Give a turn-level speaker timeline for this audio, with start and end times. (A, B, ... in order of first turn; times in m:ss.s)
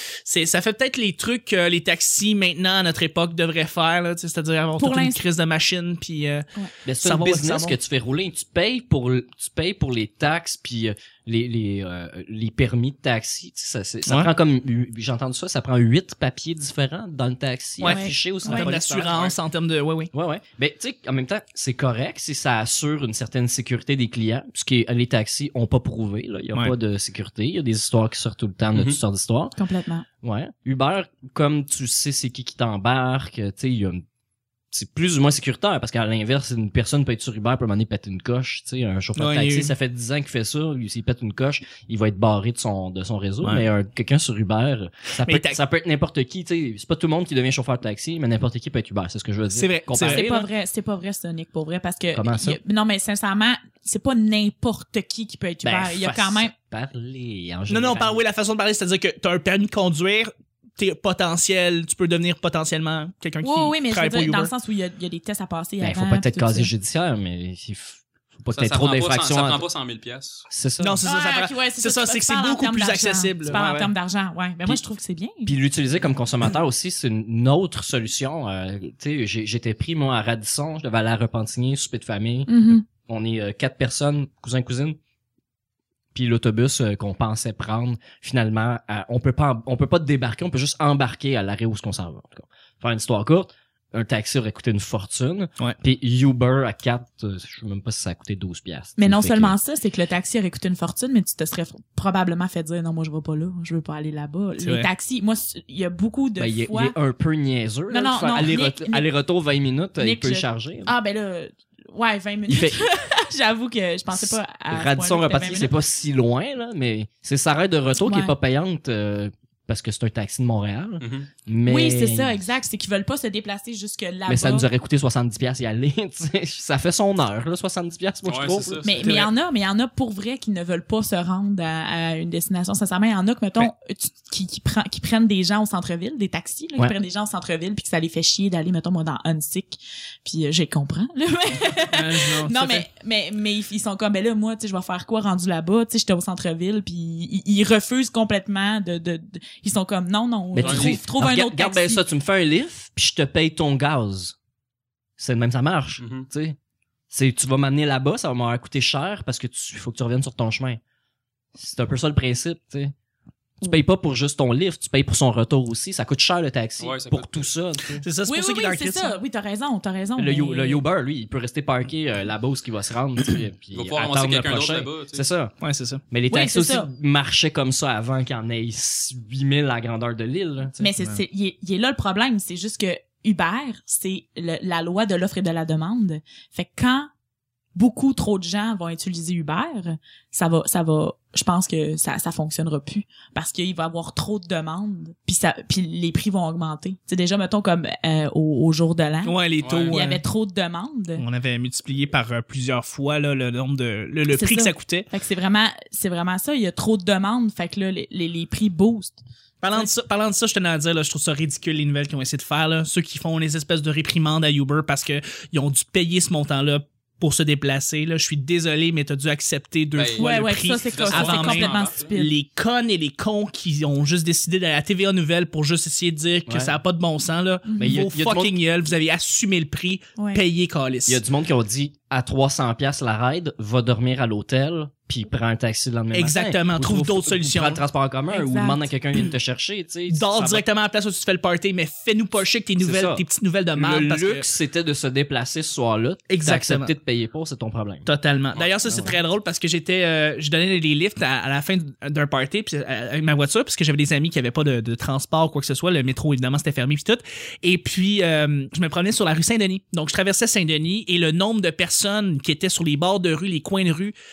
0:00.2-0:06.5 A
0:04.8-0:05.2 B
0:06.8-0:19.3 C
0:07.0-0:07.8 A
0:14.0-0:14.3 A
0:17.8-0:20.1 A
0:17.8-0:18.7 B
0:19.0-0:19.3 D
0:20.1-0:29.6 C
0:28.7-0:29.0 D
0:29.6-0:30.1 B
0:30.2-0:34.0 C
0:34.7-0:50.5 C
0:39.2-0:39.7 A
0:45.2-0:45.6 A
0:49.5-0:50.5 A
0:50.0-0:56.5 B
0:52.1-0:52.6 C
0:55.6-0:58.2 C
0:57.7-1:04.5 A
1:03.4-1:06.7 B
1:05.8-1:09.6 C
1:08.5-1:10.4 D
1:10.5-1:11.0 C
1:10.8-1:13.9 A
1:11.0-1:15.5 B
1:15.5-1:25.0 C
1:22.5-1:22.8 B
1:26.1-1:39.6 C
1:39.0-1:46.9 B
1:44.6-1:44.9 A
1:46.4-1:50.9 C
1:47.9-1:49.1 B
1:50.0-1:55.7 B
1:52.5-1:52.9 C
1:54.1-2:02.4 C
1:58.0-1:58.3 B
2:01.0-2:01.3 D
2:01.7-2:04.7 B
2:04.3-2:09.3 C
2:08.2-2:09.0 D
2:08.8-2:32.0 B
2:21.9-2:22.9 A
2:30.5-2:34.4 C
2:30.6-2:31.0 D
2:35.2-2:36.6 C
2:36.0-2:36.3 D
2:37.1-2:40.8 C
2:41.6-2:42.9 C
2:43.6-2:48.0 C
2:46.8-2:47.5 D
2:48.0-2:49.2 A
2:48.3-2:50.8 B
2:50.2-2:55.6 C
2:53.7-2:55.3 D
2:55.6-2:56.0 A
2:56.1-3:00.9 C
2:56.3-2:56.9 B
3:00.8-3:07.1 B
3:07.8-3:19.4 B
3:19.2-3:20.2 A
3:19.6-3:20.0 D
3:19.9-3:21.2 B
3:21.2-3:25.1 A
3:24.3-3:29.2 B
3:29.6-3:51.2 A
3:40.0-3:42.1 D
3:40.2-3:42.3 B
3:46.5-3:46.8 C
3:47.6-3:48.0 B
3:47.8-3:48.6 C
3:51.1-4:00.6 C
3:56.1-3:57.8 A
3:58.3-3:58.8 B
4:00.1-4:04.5 A
4:02.8-4:03.2 C
4:03.8-4:08.1 C
4:06.3-4:06.9 A
4:08.0-4:24.1 A
4:08.9-4:09.1 C